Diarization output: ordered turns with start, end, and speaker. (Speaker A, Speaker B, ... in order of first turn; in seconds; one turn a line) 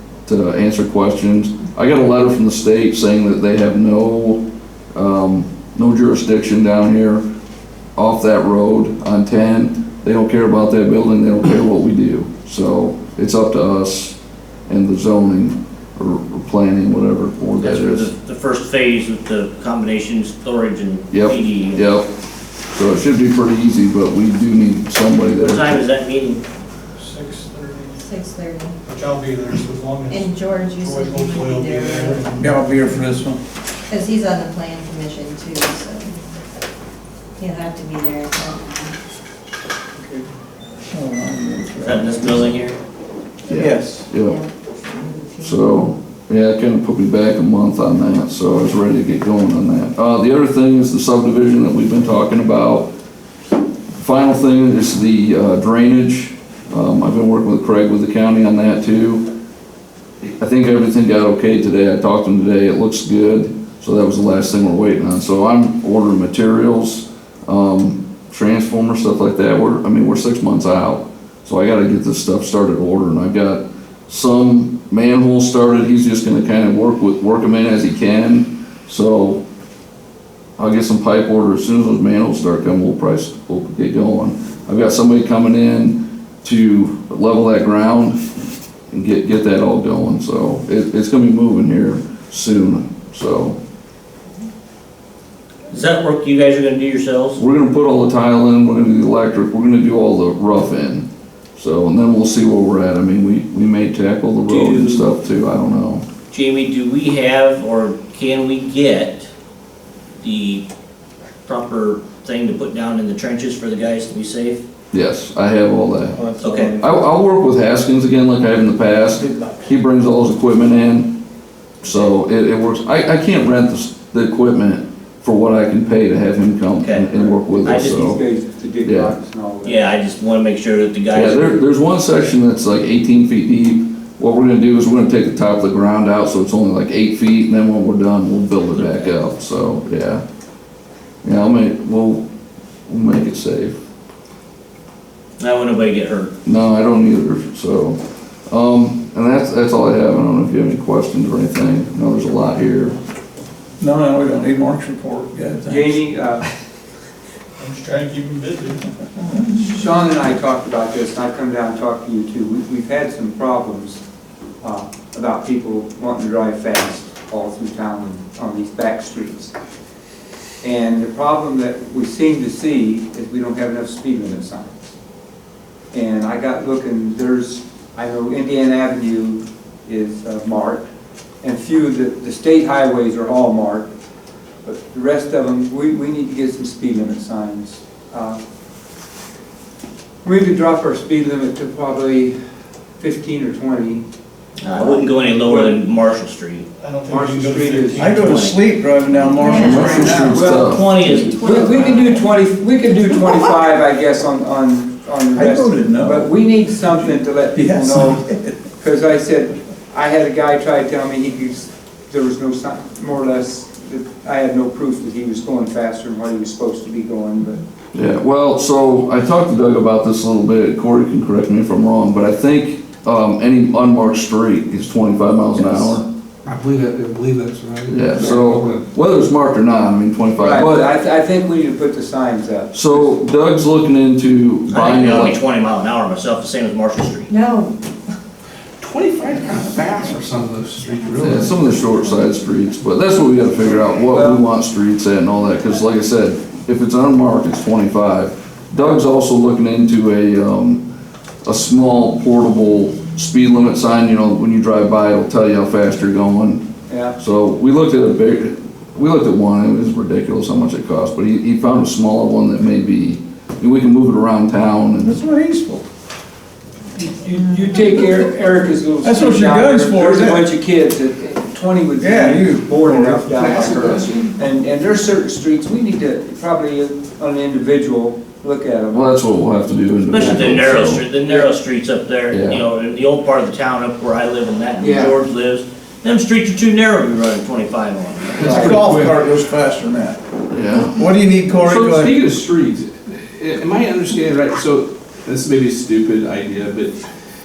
Speaker A: 0.2-4.4
Speaker A: 4.9-7.2
Speaker A: 8.0-18.1
Speaker B: 17.6-21.8
Speaker A: 21.1-22.1
Speaker A: 22.7-25.7
Speaker B: 25.4-26.4
Speaker C: 27.0-28.0
Speaker D: 28.0-28.8
Speaker C: 28.9-33.0
Speaker D: 30.1-32.3
Speaker E: 32.4-33.4
Speaker D: 33.9-36.2
Speaker D: 37.4-38.9
Speaker E: 40.9-42.5
Speaker B: 41.8-42.8
Speaker A: 43.5-44.4
Speaker E: 43.5-44.1
Speaker D: 44.1-45.8
Speaker A: 45.4-52.9
Speaker A: 54.0-59.3
Speaker A: 60.2-79.4
Speaker A: 80.6-88.2
Speaker A: 88.9-93.6
Speaker B: 95.7-97.4
Speaker A: 97.3-106.0
Speaker B: 104.5-105.1
Speaker B: 106.3-109.3
Speaker B: 110.2-110.6
Speaker B: 111.5-114.6
Speaker A: 114.9-116.2
Speaker E: 116.2-116.8
Speaker B: 116.4-116.8
Speaker A: 116.7-121.2
Speaker E: 119.3-119.6
Speaker A: 121.8-128.2
Speaker B: 126.8-128.2
Speaker F: 127.1-129.8
Speaker A: 128.8-129.1
Speaker B: 129.6-131.6
Speaker A: 131.1-140.2
Speaker B: 138.7-139.1
Speaker A: 141.2-142.2
Speaker A: 142.9-143.8
Speaker B: 145.4-146.3
Speaker A: 146.4-153.0
Speaker E: 153.8-155.9
Speaker F: 155.7-156.5
Speaker C: 157.6-158.8
Speaker F: 159.6-164.0
Speaker F: 164.6-169.5
Speaker F: 170.6-174.9
Speaker F: 175.9-180.9
Speaker F: 181.4-183.9
Speaker F: 184.6-188.4
Speaker F: 190.2-192.3
Speaker F: 193.0-194.0
Speaker B: 194.6-196.7
Speaker F: 194.7-195.8
Speaker C: 196.8-198.4
Speaker F: 197.1-198.4
Speaker E: 197.9-200.5
Speaker B: 198.2-198.6
Speaker D: 199.2-200.2
Speaker A: 199.6-200.9
Speaker F: 199.6-208.2
Speaker B: 200.3-202.2
Speaker D: 201.7-202.0
Speaker E: 205.3-206.3
Speaker E: 206.9-208.5
Speaker F: 208.8-217.6
Speaker A: 217.9-226.0
Speaker G: 226.5-228.8
Speaker A: 227.9-230.9
Speaker F: 230.4-233.2
Speaker A: 232.7-235.4
Speaker B: 234.7-237.3
Speaker D: 237.3-237.7
Speaker G: 238.8-241.7
Speaker A: 241.2-250.8
Speaker F: 244.1-244.4
Speaker A: 251.4-256.6
Speaker F: 256.9-257.1
Speaker A: 257.2-265.2
Speaker E: 265.0-265.8
Speaker F: 266.9-279.1
Speaker E: 269.0-270.5
Speaker E: 272.0-274.1
Speaker A: 278.9-281.0
Speaker B: 280.1-288.6
Speaker F: 280.1-281.5
Speaker A: 282.3-282.6
Speaker F: 284.8-285.2
Speaker E: 288.4-290.2
Speaker G: 288.4-289.2
Speaker F: 288.4-288.9
Speaker A: 290.5-290.9
Speaker E: 290.7-292.2
Speaker G: 291.6-297.0